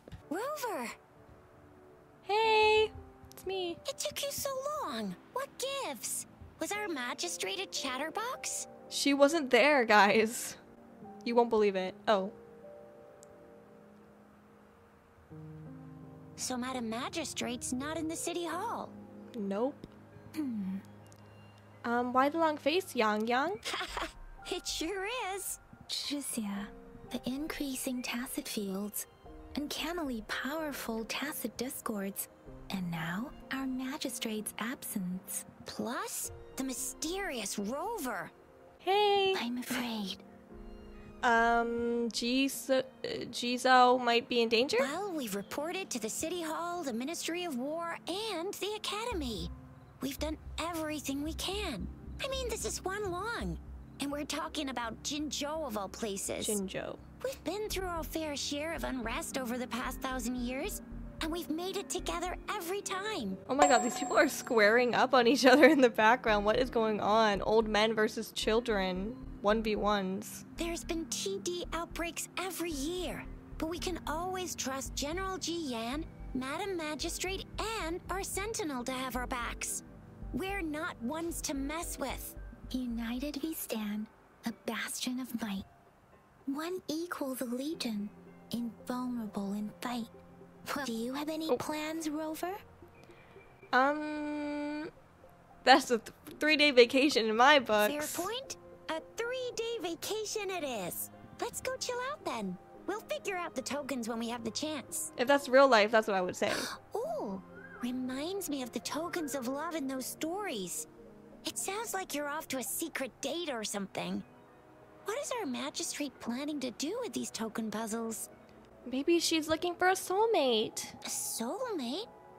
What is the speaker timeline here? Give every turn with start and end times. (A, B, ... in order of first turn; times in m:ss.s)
0:00.3-0:01.0 A
0:02.2-0:03.8 B
0:03.8-0:08.7 A
0:08.9-0:10.6 B
0:11.2-0:12.3 B
0:16.4-0:18.9 A
0:19.3-0:19.9 B
0:20.4-0:20.8 C
0:21.8-0:23.6 B
0:23.7-0:25.6 A
0:25.9-0:35.4 C
0:35.6-0:38.3 A
0:38.8-0:39.4 B
0:39.3-0:40.2 C
0:41.2-0:44.9 B
0:44.8-0:56.6 A
0:56.4-0:57.0 B
0:57.2-1:03.4 A
1:03.5-1:10.4 B
1:10.6-1:22.4 A
1:22.7-1:25.6 C
1:26.5-1:30.1 C
1:30.6-1:32.6 C
1:33.7-1:34.9 B
1:35.6-1:38.3 B
1:37.8-1:45.1 A
1:45.2-1:46.7 B
1:46.5-1:50.9 A
1:51.4-1:54.2 A
1:55.0-1:58.3 A
1:58.8-2:01.0 B
2:01.0-2:02.1 A